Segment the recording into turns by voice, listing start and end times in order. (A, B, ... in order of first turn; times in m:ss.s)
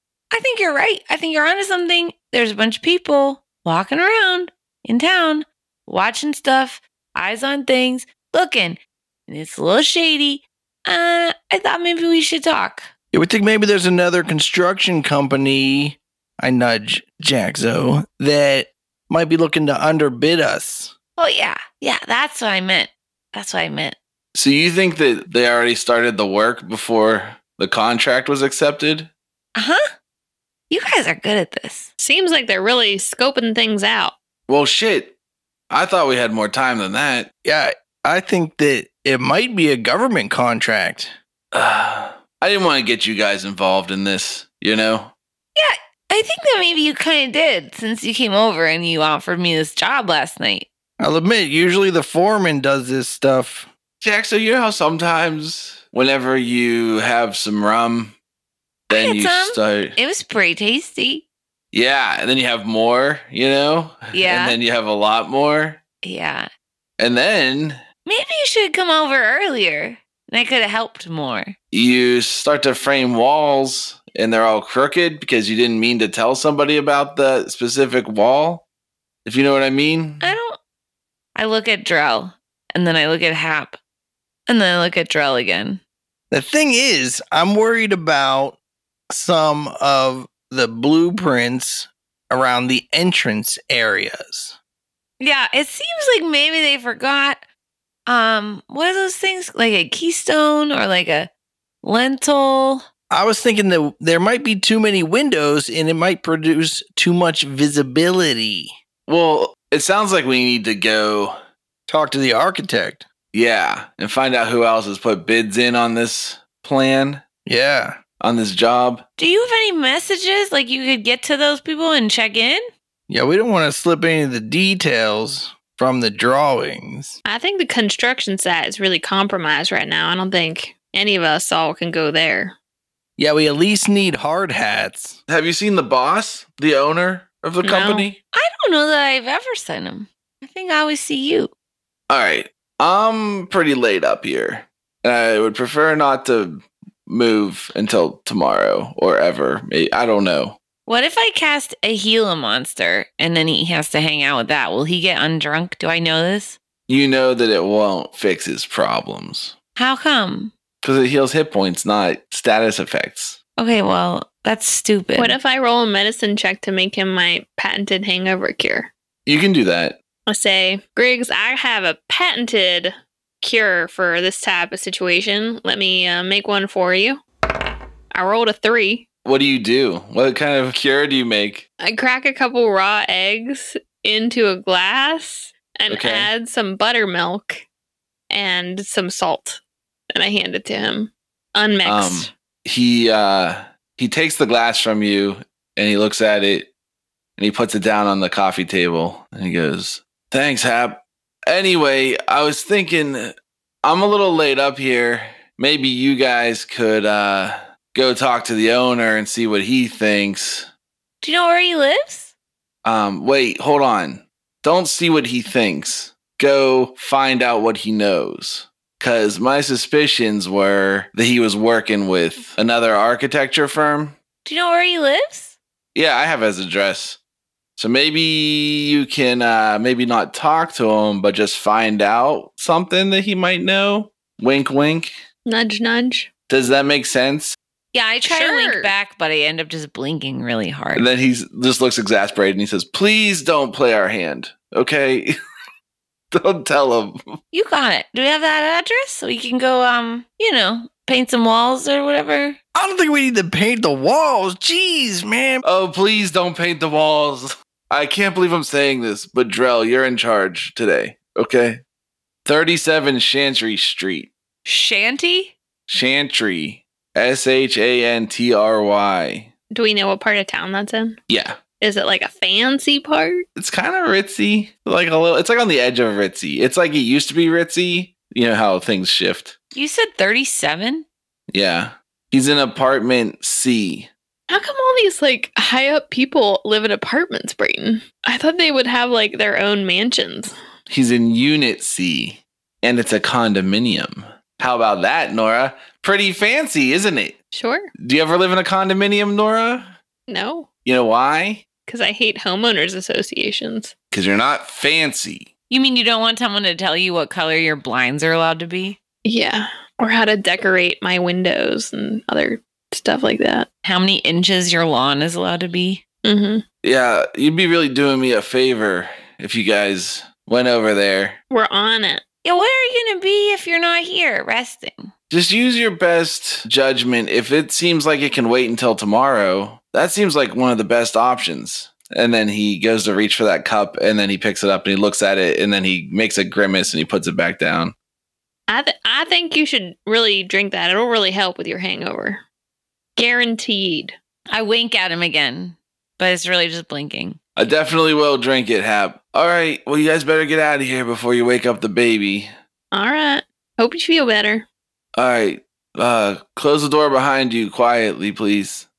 0:00.3-0:12.9 A
0:13.1-0:20.9 B
0:21.2-0:24.0 A
0:24.3-0:29.1 C
0:29.6-0:29.8 A
0:30.7-0:31.9 A
0:32.0-0:34.1 D
0:34.5-0:35.2 C
0:35.7-0:37.3 C
0:37.4-0:41.1 B
0:41.5-0:45.1 C
0:45.6-0:50.7 A
0:51.0-0:53.7 B
0:54.0-0:58.1 C
0:58.9-1:01.2 A
0:58.9-1:00.0 C
1:01.7-1:05.8 C
1:04.1-1:04.6 A
1:06.0-1:06.5 A
1:07.0-1:07.8 C
1:08.0-1:11.5 A
1:11.7-1:18.6 C
1:19.2-1:20.3 C
1:20.2-1:20.6 A
1:21.3-1:23.8 A
1:24.5-1:25.8 A
1:26.3-1:28.6 B
1:29.1-1:34.6 B
1:35.2-1:37.4 A
1:38.1-1:41.3 A
1:41.8-1:42.8 A
1:43.1-1:48.7 B
1:49.1-1:51.4 C
1:51.9-1:53.1 B
1:53.3-1:57.2 C
1:57.4-1:58.0 B
1:58.2-1:59.0 C
1:59.2-2:02.6 A
2:03.1-2:07.2 B
2:07.2-2:12.6 D
2:13.2-2:15.2 B
2:15.3-2:18.2 C
2:17.6-2:18.1 D
2:18.3-2:21.5 A
2:22.1-2:30.6 C
2:30.8-2:36.6 A
2:36.9-2:39.5 C
2:39.8-2:40.5 A
2:40.8-2:43.4 C
2:43.6-2:45.4 A
2:45.2-2:48.9 D
2:49.2-2:50.0 C
2:50.3-2:57.2 D
2:58.1-2:59.0 D
2:59.2-3:01.6 C
3:01.8-3:07.6 D
3:05.9-3:06.3 C
3:08.3-3:09.6 D
3:10.1-3:12.3 D
3:11.8-3:16.7 C
3:17.4-3:30.7 C
3:31.2-3:32.3 A
3:32.8-3:44.2 C
3:44.4-3:45.6 A
3:45.9-3:47.2 C
3:47.8-3:55.1 C
3:55.4-3:56.3 D
3:56.5-3:57.6 C
3:57.9-4:01.0 A
3:58.2-3:58.9 D
4:01.0-4:05.3 C
4:06.3-4:07.2 C
4:07.5-4:12.6 A
4:12.7-4:15.6 B
4:15.6-4:21.8 C
4:22.4-4:24.3 C
4:24.6-4:25.5 A
4:25.9-4:29.5 C
4:29.7-4:31.2 D
4:31.3-4:31.6 C
4:31.8-4:33.4 D
4:33.6-4:39.5 C
4:39.7-4:41.0 A
4:41.5-4:44.1 C
4:44.5-4:50.5 D
4:50.9-4:57.4 C
4:57.5-4:57.9 D
4:58.0-4:59.9 C
5:00.3-5:00.7 D
5:00.8-5:01.6 C
5:01.8-5:03.9 D
5:04.1-5:05.5 C
5:05.7-5:09.0 A
5:09.2-5:13.7 D
5:13.8-5:16.0 A
5:16.2-5:16.6 D
5:16.8-5:21.4 C
5:21.5-5:22.2 D
5:22.4-5:25.1 A
5:25.3-5:37.9 C
5:38.7-5:42.4 D
5:43.2-5:44.1 D
5:44.5-5:47.4 A
5:47.6-5:52.5 C
5:52.9-5:54.6 D
5:55.1-5:58.9 C